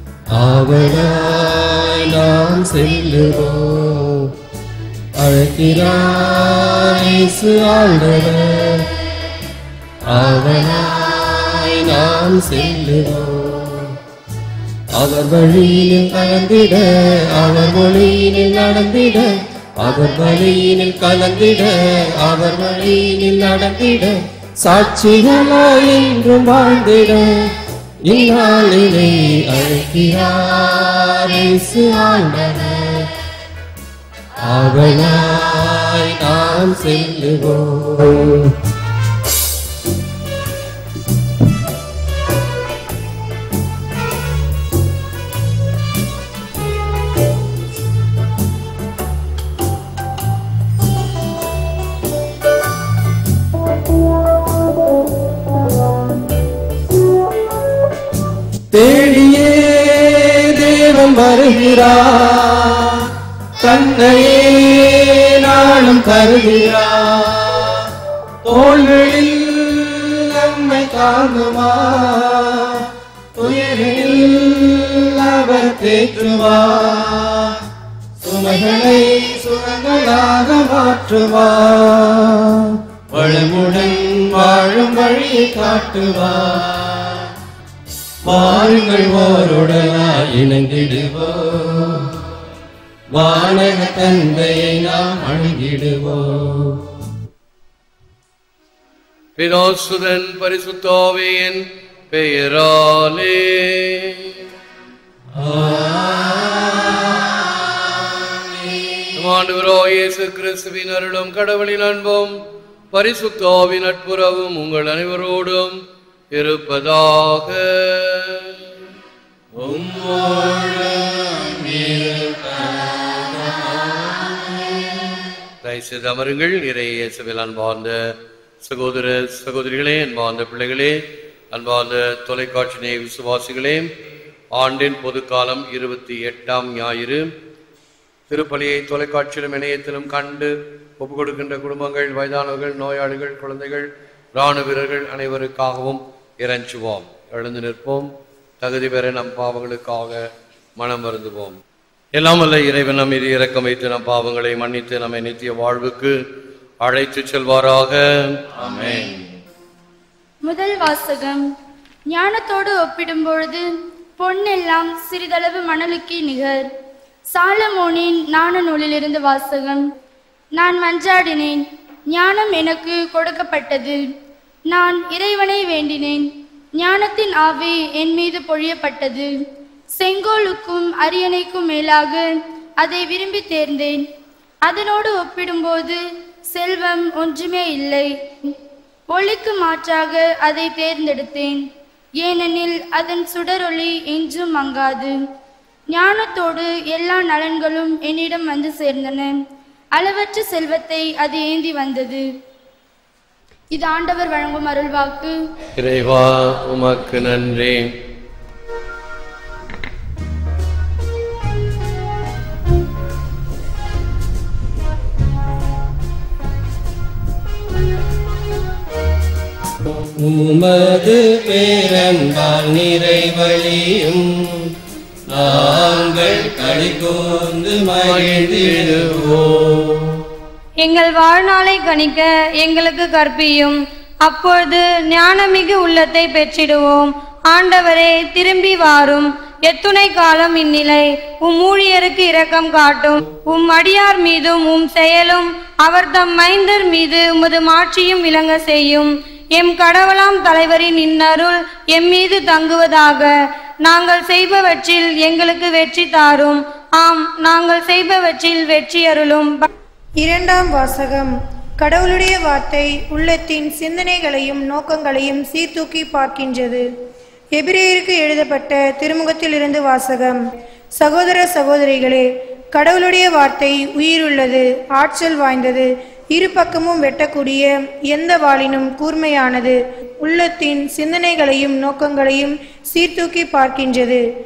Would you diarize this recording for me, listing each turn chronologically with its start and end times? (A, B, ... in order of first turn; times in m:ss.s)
0:00.3-0:04.3 A
0:05.2-0:08.9 A
0:10.1-0:14.0 A
0:14.9-0:27.5 A
0:28.0-0:33.1 A
0:34.4-0:38.5 A
0:58.7-1:07.8 A
1:08.4-1:17.6 A
1:18.2-1:27.3 A
1:28.2-1:32.1 A
1:33.1-1:36.8 A
1:39.4-1:44.3 B
1:45.4-1:49.0 A
1:49.2-1:52.3 B
1:52.9-1:55.8 B
1:56.3-1:58.5 B
1:59.6-2:05.1 A
2:05.6-2:08.0 B
2:08.6-2:11.0 B
2:11.5-2:13.9 B
2:14.5-2:17.3 B
2:18.3-2:28.1 B
2:28.6-2:30.2 B
2:30.8-2:31.6 B
2:32.1-2:36.2 B
2:36.8-2:38.2 B
2:38.6-2:39.2 A
2:40.4-2:41.4 C
2:42.1-2:43.6 C
2:44.2-2:46.7 C
2:47.3-2:49.8 C
2:50.5-2:54.0 C
2:54.7-2:59.3 C
3:00.0-3:04.0 C
3:04.6-3:06.0 C
3:06.5-3:08.5 C
3:09.1-3:11.6 C
3:12.2-3:15.2 C
3:15.9-3:19.4 C
3:19.9-3:22.3 C
3:23.7-3:25.4 C
3:25.8-3:27.9 B
3:40.2-3:44.7 A
3:45.3-3:50.2 A
3:48.0-3:49.2 B
3:50.8-4:13.3 D
4:13.8-4:19.6 D
4:20.2-4:26.8 E
4:27.5-4:30.4 E
4:31.0-4:44.2 E